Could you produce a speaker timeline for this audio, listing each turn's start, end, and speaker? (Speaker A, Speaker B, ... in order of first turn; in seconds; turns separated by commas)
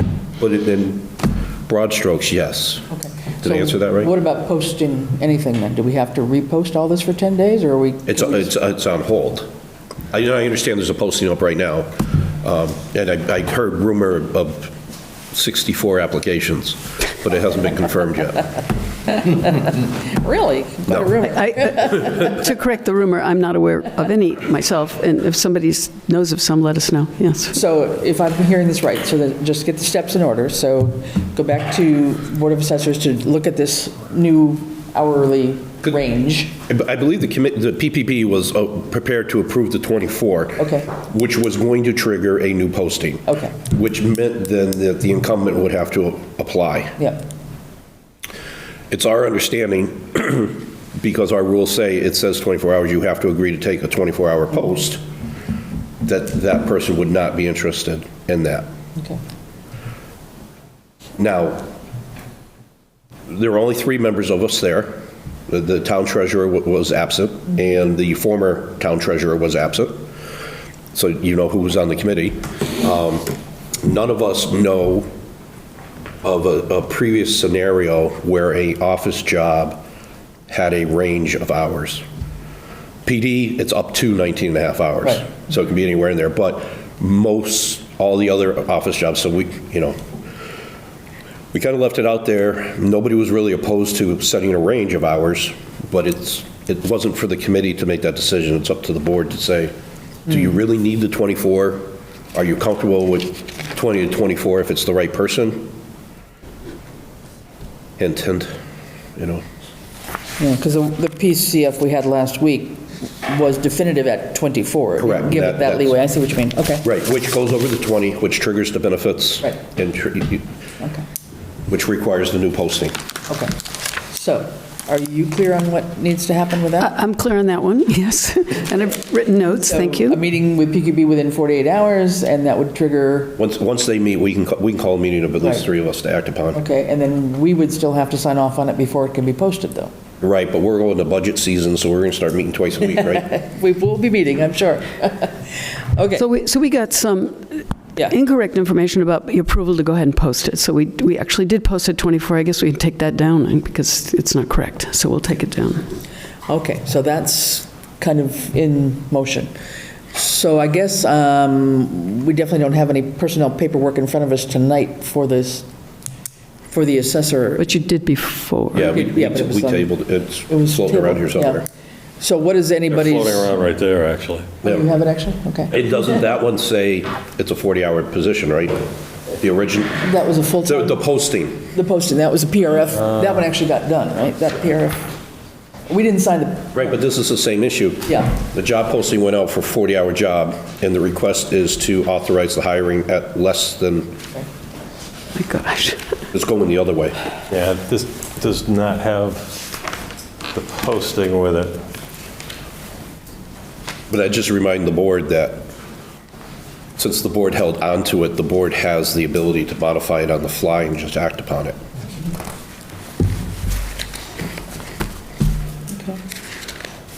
Speaker A: 0.4-4.1, Speaker B: 2.9-8.5, Speaker A: 8.1-9.5, Speaker A: 10.1-14.7, Speaker A: 15.3-18.5, Speaker B: 19.1-22.2, Speaker C: 21.2-27.6, Speaker B: 27.5-36.5, Speaker A: 36.7-47.0, Speaker B: 40.6-40.9, Speaker B: 43.3-43.5, Speaker A: 48.9-55.0, Speaker A: 56.0-58.7, Speaker A: 61.2-61.7, Speaker A: 63.3-70.1, Speaker A: 70.9-75.1, Speaker A: 76.2-79.8, Speaker A: 80.5-82.0, Speaker A: 83.1-90.0, Speaker A: 91.5-99.7, Speaker A: 100.3-105.7, Speaker A: 108.0-108.5, Speaker A: 109.2-109.5, Speaker B: 110.4-116.8, Speaker A: 115.0-116.0, Speaker A: 116.8-120.5, Speaker B: 120.8-121.0, Speaker A: 121.7-123.0, Speaker B: 123.3-123.5, Speaker B: 124.1-126.9, Speaker C: 126.8-130.2, Speaker B: 129.6-133.3, Speaker A: 133.4-136.6, Speaker B: 136.5-139.9, Speaker A: 140.2-143.3, Speaker B: 143.2-146.2, Speaker C: 146.2-155.8, Speaker B: 156.5-159.5, Speaker B: 160.1-165.7, Speaker B: 166.7-167.7, Speaker C: 167.6-168.9, Speaker A: 168.7-171.7, Speaker B: 168.8-169.9, Speaker B: 170.5-171.6, Speaker B: 172.2-173.5, Speaker D: 172.9-174.6, Speaker A: 174.6-174.9, Speaker B: 174.6-175.7, Speaker A: 175.7-178.8, Speaker A: 179.4-180.1, Speaker B: 180.0-181.0, Speaker A: 180.6-181.7, Speaker B: 181.7-185.1, Speaker B: 185.9-186.8, Speaker A: 186.7-194.2, Speaker C: 195.3-196.0, Speaker A: 196.3-197.2, Speaker D: 197.5-199.6, Speaker D: 200.5-201.8, Speaker A: 204.1-205.7, Speaker A: 207.0-211.8, Speaker B: 215.9-216.2